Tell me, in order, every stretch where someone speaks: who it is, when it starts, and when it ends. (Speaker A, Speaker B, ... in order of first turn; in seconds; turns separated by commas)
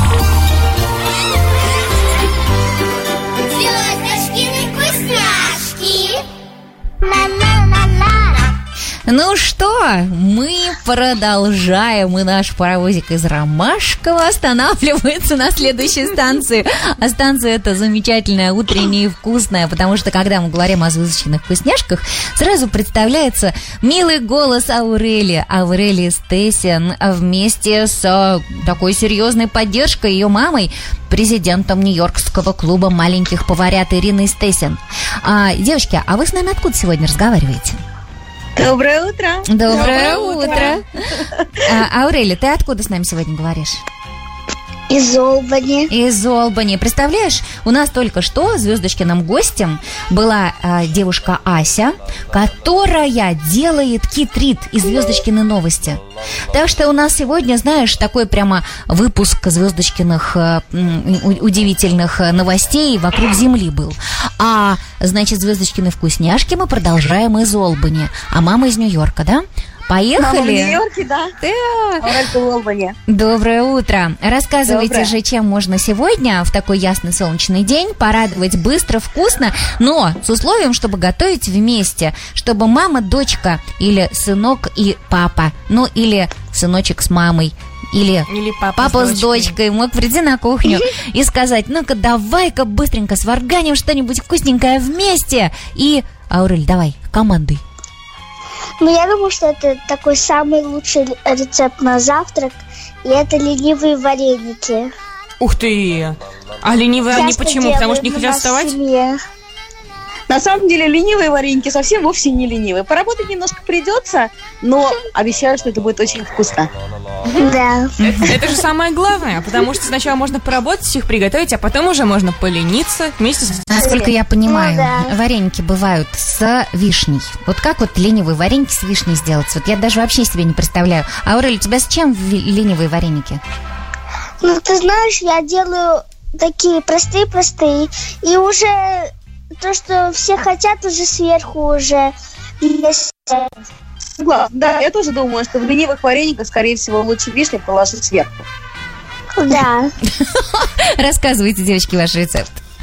Speaker A: 3.5-6.2, Speaker A: 7.0-8.4, Speaker B: 9.1-37.8, Speaker C: 38.5-41.6, Speaker B: 39.5-40.8, Speaker A: 39.8-40.7, Speaker D: 40.0-40.5, Speaker B: 41.6-43.8, Speaker A: 44.9-45.9, Speaker B: 45.9-70.8, Speaker C: 70.2-71.3, Speaker B: 71.4-72.2, Speaker C: 72.0-73.0, Speaker B: 73.1-97.6, Speaker C: 74.6-75.1, Speaker D: 88.3-89.5, Speaker A: 98.8-104.9, Speaker D: 105.4-108.7, Speaker A: 107.1-109.2, Speaker C: 110.3-116.7, Speaker A: 117.3-117.9, Speaker D: 117.4-123.7, Speaker B: 118.0-118.3, Speaker B: 123.6-133.4, Speaker C: 123.8-124.1, Speaker A: 124.5-125.1, Speaker A: 134.4-143.5, Speaker C: 144.2-148.4, Speaker A: 149.3-149.9, Speaker B: 150.2-152.6